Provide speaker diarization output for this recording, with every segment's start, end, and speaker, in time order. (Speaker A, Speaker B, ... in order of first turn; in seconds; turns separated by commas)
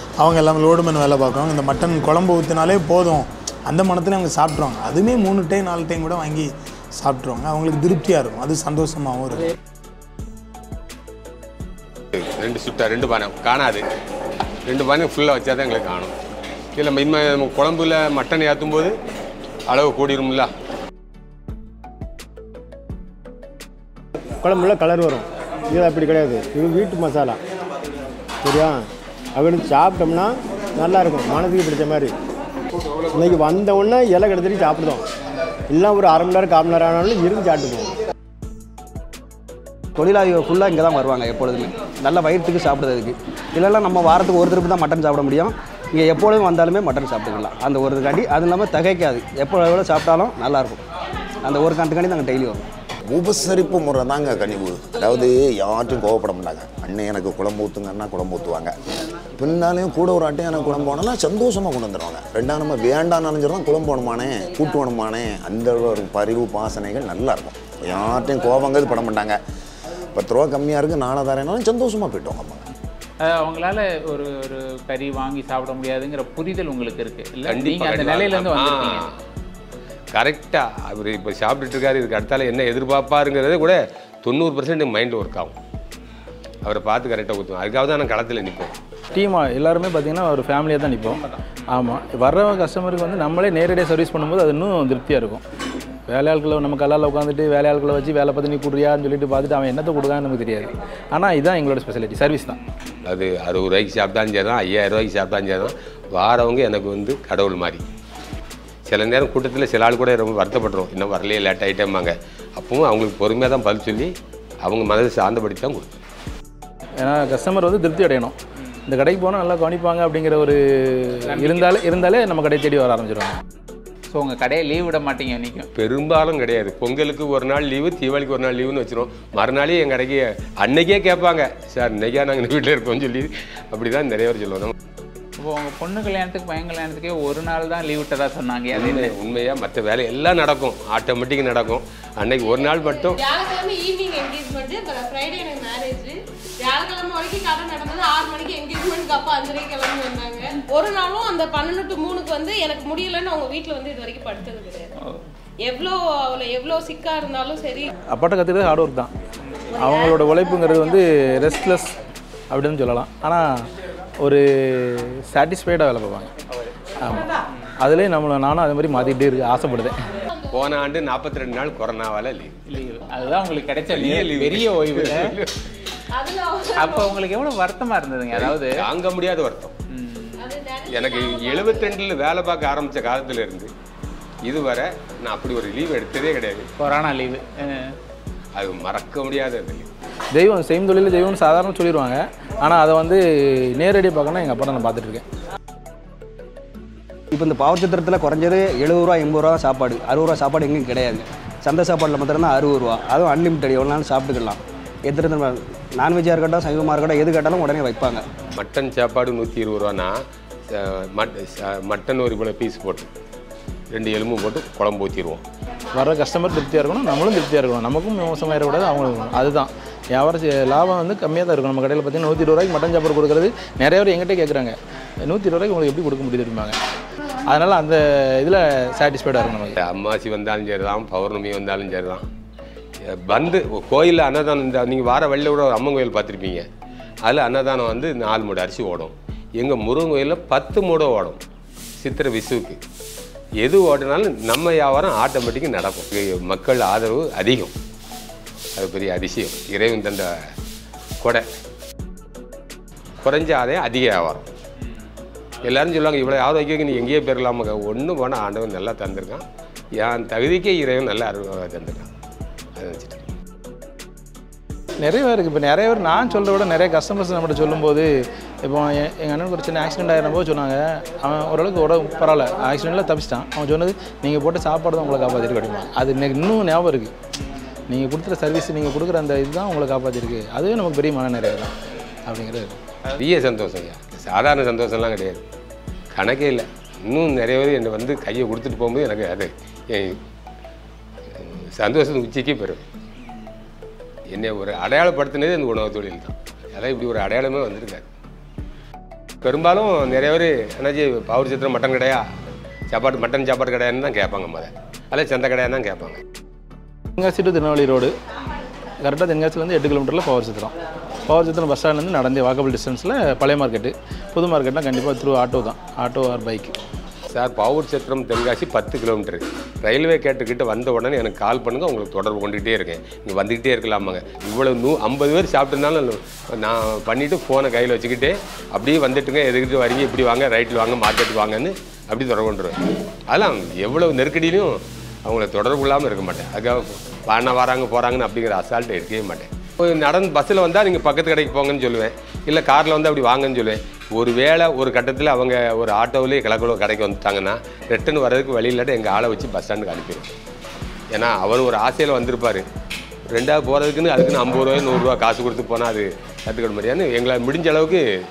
Speaker A: 0.2-6.5, Speaker A: 7.0-9.4, Speaker B: 12.2-13.8, Speaker B: 14.7-16.2, Speaker B: 16.8-18.9, Speaker B: 19.7-20.5, Speaker C: 24.4-27.4, Speaker C: 28.4-28.8, Speaker C: 29.4-32.1, Speaker C: 33.1-35.0, Speaker C: 35.7-37.9, Speaker D: 40.0-50.8, Speaker D: 51.4-52.6, Speaker E: 53.1-58.7, Speaker E: 59.4-69.4, Speaker E: 70.1-72.7, Speaker F: 73.2-79.1, Speaker B: 77.5-79.1, Speaker B: 80.1-85.5, Speaker B: 86.6-88.7, Speaker G: 89.1-95.4, Speaker G: 96.1-102.6, Speaker B: 103.1-107.9, Speaker B: 108.9-114.1, Speaker B: 114.6-116.0, Speaker G: 117.0-118.4, Speaker G: 118.9-123.4, Speaker F: 121.4-121.7, Speaker F: 124.1-125.7, Speaker B: 125.8-134.7, Speaker F: 135.4-139.2, Speaker B: 138.7-143.2, Speaker H: 142.5-154.9, Speaker H: 155.6-157.9, Speaker G: 158.1-159.1, Speaker G: 159.8-161.9, Speaker G: 162.5-163.5, Speaker G: 164.2-166.3, Speaker G: 167.0-170.0, Speaker B: 170.5-172.6, Speaker F: 172.7-175.4, Speaker B: 173.9-175.6, Speaker H: 176.2-177.2, Speaker F: 176.8-178.8, Speaker B: 178.3-179.7, Speaker F: 179.9-180.4, Speaker H: 180.4-182.0, Speaker B: 180.9-183.7, Speaker B: 184.5-186.7, Speaker F: 186.8-187.9, Speaker B: 188.6-189.9, Speaker G: 190.3-195.2, Speaker D: 197.3-208.2, Speaker B: 208.6-210.2, Speaker B: 210.7-213.1, Speaker B: 213.9-215.4, Speaker G: 215.9-226.8, Speaker G: 227.5-229.8, Speaker B: 229.8-232.2, Speaker B: 233.3-236.7, Speaker B: 237.2-241.4, Speaker B: 242.0-242.8, Speaker B: 243.6-247.7, Speaker B: 248.8-250.3, Speaker B: 253.2-254.4, Speaker B: 255.6-259.4, Speaker B: 260.0-262.1, Speaker B: 262.8-263.3, Speaker G: 265.0-277.1, Speaker G: 277.9-281.7, Speaker G: 282.2-282.8, Speaker B: 283.2-285.4, Speaker B: 286.1-290.2, Speaker B: 291.4-292.9, Speaker B: 294.3-298.1, Speaker B: 299.4-302.2, Speaker B: 302.9-306.2, Speaker G: 307.2-308.1, Speaker G: 309.0-310.7, Speaker G: 311.3-316.8, Speaker B: 317.3-332.8, Speaker B: 333.3-334.7, Speaker B: 335.3-350.3, Speaker B: 351.1-352.6, Speaker B: 353.3-358.0